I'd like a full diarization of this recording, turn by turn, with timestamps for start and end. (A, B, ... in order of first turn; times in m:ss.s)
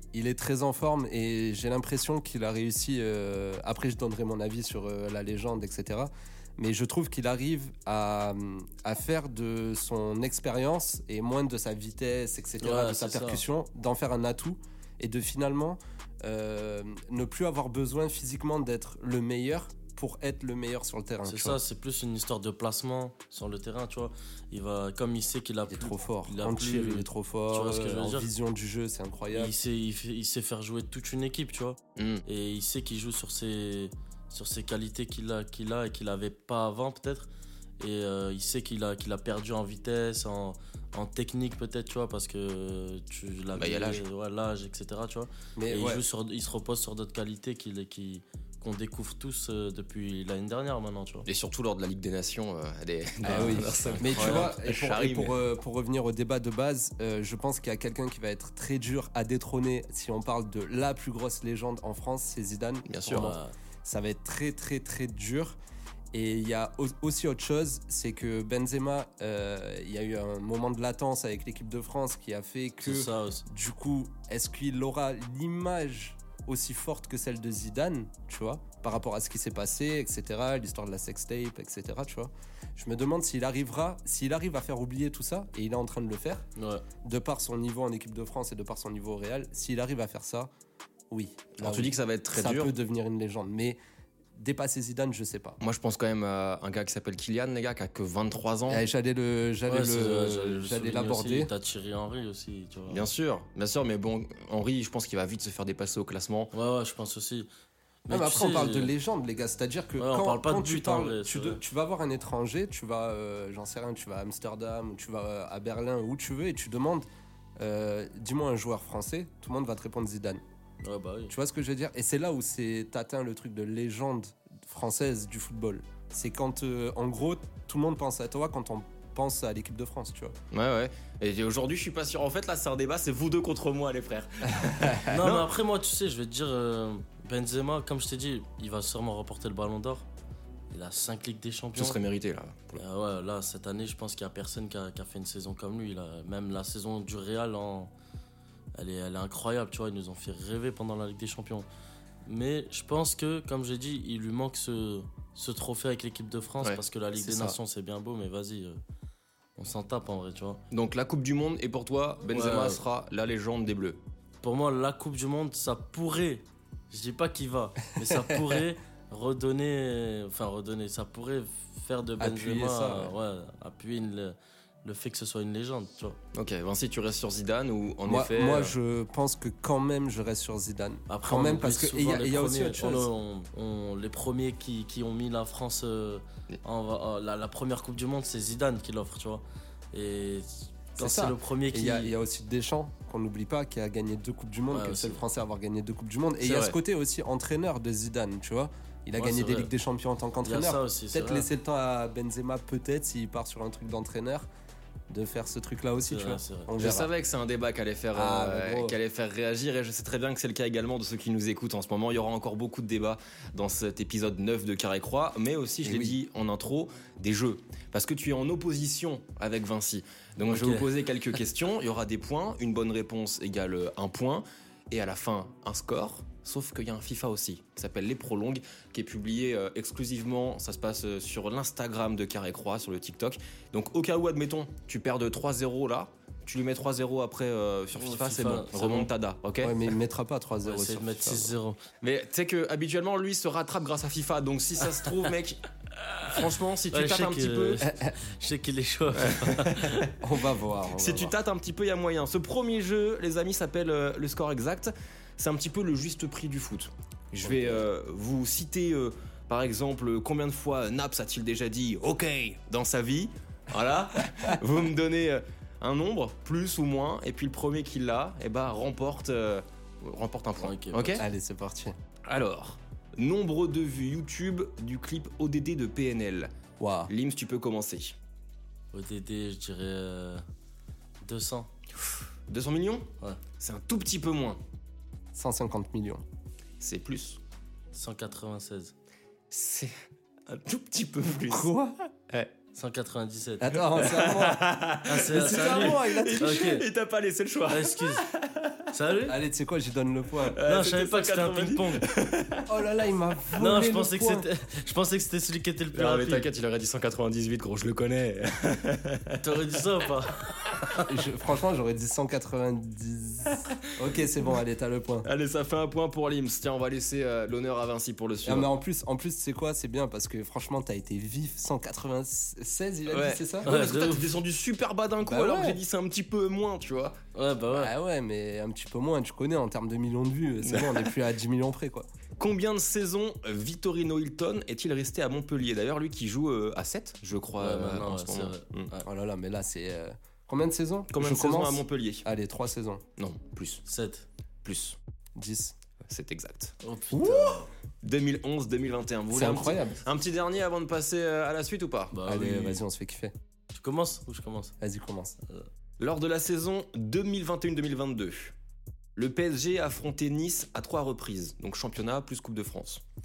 0:00.1-0:21.6 A
0:12.6-0:13.4 B
0:21.2-0:28.3 B
0:25.7-0:29.5 A
0:29.3-0:51.3 B
0:32.0-0:32.2 C
0:43.6-0:44.0 C
0:45.6-0:46.0 A
0:51.2-0:55.4 C
0:53.2-1:05.6 A
0:53.3-0:54.5 B
1:02.9-1:03.3 C
1:03.1-1:03.5 B
1:06.1-1:26.4 A
1:12.8-1:13.4 B
1:26.6-1:26.8 B
1:27.0-1:30.5 A
1:31.1-1:33.8 A
1:31.6-1:32.7 C
1:34.3-1:35.6 A
1:35.6-1:38.8 C
1:38.7-1:41.5 A
1:39.7-1:43.0 B
1:42.9-1:46.5 C
1:46.5-1:47.5 B
1:48.1-1:48.9 B
1:48.1-2:00.4 A
1:50.0-1:51.6 B
2:00.8-2:01.4 B
2:01.3-2:10.4 A
2:10.5-2:15.5 C
2:14.6-2:15.2 A
2:15.1-2:20.1 B
2:20.7-2:22.0 B
2:21.8-2:22.8 C
2:22.8-2:27.9 B
2:28.7-2:31.6 B
2:32.2-2:38.8 B
2:36.6-2:37.4 C
2:39.6-2:40.6 B
2:40.7-2:44.0 C
2:42.3-2:42.8 B
2:44.4-2:56.2 B
2:52.2-2:53.1 A
2:56.3-2:58.8 C
2:58.0-3:03.1 A
3:01.1-3:12.1 B
3:11.0-3:24.5 A
3:14.7-3:15.2 B
3:16.4-3:16.7 C
3:19.2-3:19.7 B
3:20.4-3:21.5 B
3:25.1-3:27.1 A
3:26.1-3:26.7 B
3:26.8-3:59.8 C
3:28.1-3:29.0 A
3:35.8-3:36.2 A
3:40.4-3:40.9 B
3:57.9-3:59.1 B
3:59.6-4:01.5 A
4:00.6-4:01.8 B
4:02.0-4:05.6 C
4:06.2-4:07.8 C
4:06.9-4:10.1 B
4:07.8-4:08.1 A
4:09.2-4:10.1 C
4:10.2-4:11.3 A
4:10.9-4:31.2 C
4:30.6-4:31.2 B
4:31.2-4:32.0 A
4:32.3-4:36.5 C
4:36.8-4:37.1 A
4:37.1-4:38.2 C
4:38.9-4:40.4 B
4:41.2-4:41.7 B
4:42.0-4:44.6 C
4:45.3-4:46.2 A
4:46.8-4:47.4 C
4:47.9-4:48.9 B
4:49.5-4:49.9 C
4:50.5-4:51.7 C
4:51.4-4:52.0 A
4:52.7-4:53.8 B
4:53.6-4:56.8 A
4:53.9-4:58.8 C
4:55.0-4:56.8 B
4:57.7-4:58.2 B
4:58.9-4:59.4 B
4:59.3-5:00.6 A
5:00.5-5:02.7 C
5:00.6-5:02.0 B
5:02.7-5:04.4 A
5:03.6-5:06.5 B
5:05.9-5:09.4 C
5:09.4-5:11.0 B
5:11.1-5:15.3 A
5:15.2-5:18.7 C
5:18.4-5:23.8 A
5:23.1-5:27.2 C
5:23.6-5:24.3 B
5:25.2-5:25.8 A
5:27.3-5:27.9 B
5:27.7-5:32.1 A
5:30.6-5:31.1 C
5:32.4-5:38.9 C
5:37.6-5:39.1 B
5:39.0-5:43.0 A
5:41.1-5:42.2 C
5:43.2-5:43.8 C
5:43.8-5:44.2 B
5:44.6-5:45.0 C
5:45.4-5:45.8 A
5:46.1-5:46.8 C
5:46.8-5:47.7 B
5:47.1-5:47.6 A
5:48.0-5:52.1 C
5:49.3-5:50.0 A
5:52.1-5:52.8 B
5:52.2-5:53.3 A
5:53.7-5:54.7 B
5:54.8-5:55.3 A
5:56.0-5:58.5 C
5:59.2-6:03.0 C